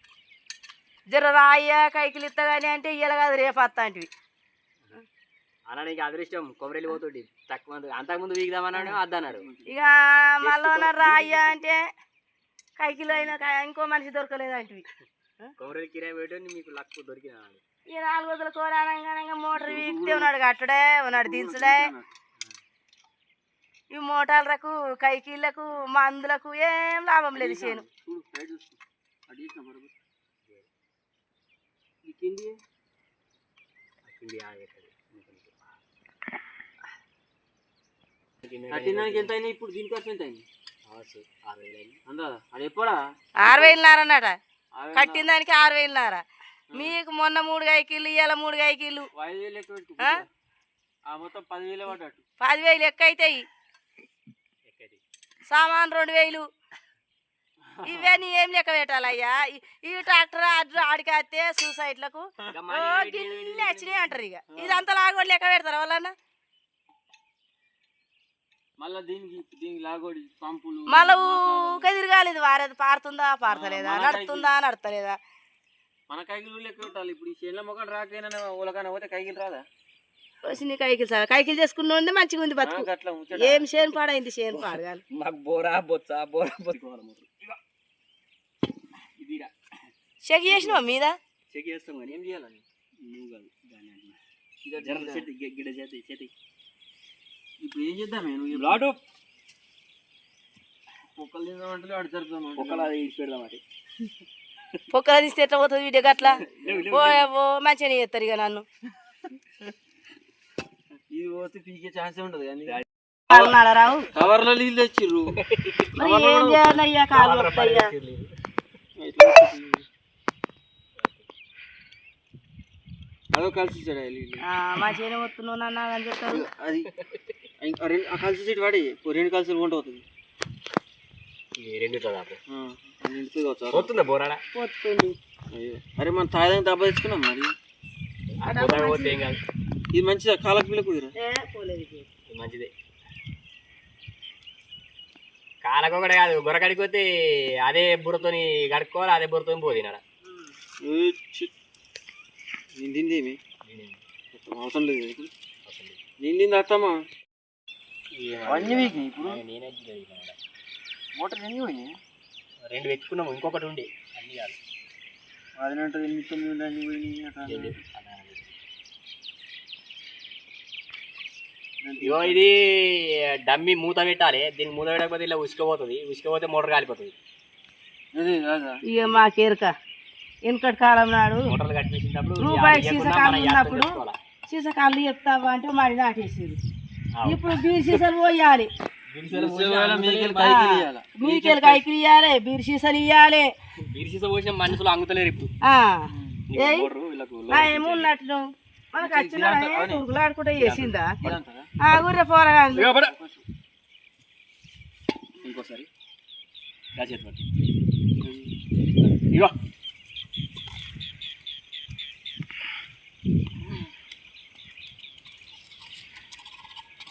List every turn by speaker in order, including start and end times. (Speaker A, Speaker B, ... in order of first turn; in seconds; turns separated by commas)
Speaker A: 1.1-4.1, Speaker B: 5.7-9.5, Speaker C: 9.3-9.9, Speaker A: 9.7-11.8, Speaker B: 10.4-11.7, Speaker A: 12.8-14.8, Speaker B: 15.6-17.6, Speaker A: 17.9-21.9, Speaker C: 19.5-20.3, Speaker C: 21.1-22.1, Speaker A: 23.9-27.9, Speaker C: 27.4-29.9, Speaker C: 32.0-32.6, Speaker B: 34.0-35.8, Speaker B: 38.4-39.3, Speaker C: 38.7-40.5, Speaker B: 40.9-42.0, Speaker C: 42.1-43.8, Speaker A: 43.4-44.4, Speaker C: 44.8-45.3, Speaker A: 44.9-46.2, Speaker A: 46.7-49.1, Speaker C: 49.1-50.3, Speaker C: 51.1-52.2, Speaker A: 52.4-53.5, Speaker B: 54.6-55.0, Speaker A: 55.5-56.5, Speaker C: 57.8-58.2, Speaker A: 57.8-66.1, Speaker B: 62.5-64.2, Speaker C: 64.5-64.8, Speaker C: 68.8-71.9, Speaker A: 70.9-75.2, Speaker C: 73.5-74.5, Speaker C: 76.1-79.7, Speaker A: 80.5-85.0, Speaker C: 82.6-83.7, Speaker B: 84.5-87.6, Speaker B: 89.2-89.5, Speaker A: 90.2-91.2, Speaker B: 91.5-92.2, Speaker C: 92.1-92.6, Speaker B: 93.0-94.2, Speaker C: 94.6-95.3, Speaker B: 94.8-96.3, Speaker C: 97.6-98.8, Speaker B: 98.5-99.0, Speaker C: 101.2-102.9, Speaker B: 102.5-103.6, Speaker A: 104.9-108.7, Speaker C: 106.2-106.9, Speaker B: 106.4-107.2, Speaker C: 111.1-112.8, Speaker B: 112.7-113.5, Speaker A: 113.3-114.1, Speaker C: 114.1-115.3, Speaker B: 115.4-115.9, Speaker A: 116.0-117.9, Speaker C: 116.0-116.8, Speaker B: 117.1-118.3, Speaker C: 119.0-119.9, Speaker B: 121.0-121.3, Speaker C: 123.3-124.4, Speaker A: 124.4-126.5, Speaker C: 126.3-126.9, Speaker B: 126.9-127.2, Speaker C: 127.6-130.1, Speaker B: 131.6-132.4, Speaker C: 132.5-133.9, Speaker B: 133.7-134.4, Speaker A: 134.5-135.2, Speaker C: 135.5-137.5, Speaker B: 138.4-139.4, Speaker A: 138.4-139.3, Speaker C: 139.9-141.2, Speaker A: 141.2-142.1, Speaker B: 142.3-142.7, Speaker B: 145.6-147.1, Speaker B: 147.6-150.0, Speaker A: 150.3-150.5, Speaker C: 150.8-151.5, Speaker C: 152.8-153.4, Speaker B: 153.7-154.0, Speaker C: 154.3-155.3, Speaker B: 155.7-156.0, Speaker C: 156.2-157.0, Speaker B: 158.1-160.4, Speaker C: 158.5-159.4, Speaker C: 161.2-161.9, Speaker B: 162.7-164.6, Speaker C: 165.6-167.8, Speaker B: 167.5-168.5, Speaker C: 171.8-172.4, Speaker B: 172.0-177.2, Speaker C: 178.1-178.8, Speaker A: 178.9-179.7, Speaker A: 180.4-181.5, Speaker B: 181.5-184.2, Speaker A: 182.4-183.9, Speaker A: 184.5-186.6, Speaker B: 187.2-187.9, Speaker A: 187.3-188.7, Speaker B: 189.1-190.7, Speaker C: 189.3-191.8, Speaker A: 190.4-193.5, Speaker B: 193.9-195.5, Speaker A: 195.7-196.9, Speaker C: 196.1-196.4, Speaker B: 196.5-198.1, Speaker A: 197.5-198.4, Speaker A: 198.9-201.2, Speaker C: 199.0-200.0, Speaker B: 200.6-201.3, Speaker C: 201.2-201.7, Speaker A: 201.8-202.9, Speaker B: 202.8-203.1, Speaker C: 203.0-203.4, Speaker B: 205.4-205.9, Speaker B: 206.9-207.5, Speaker C: 208.2-208.5, Speaker B: 209.3-209.5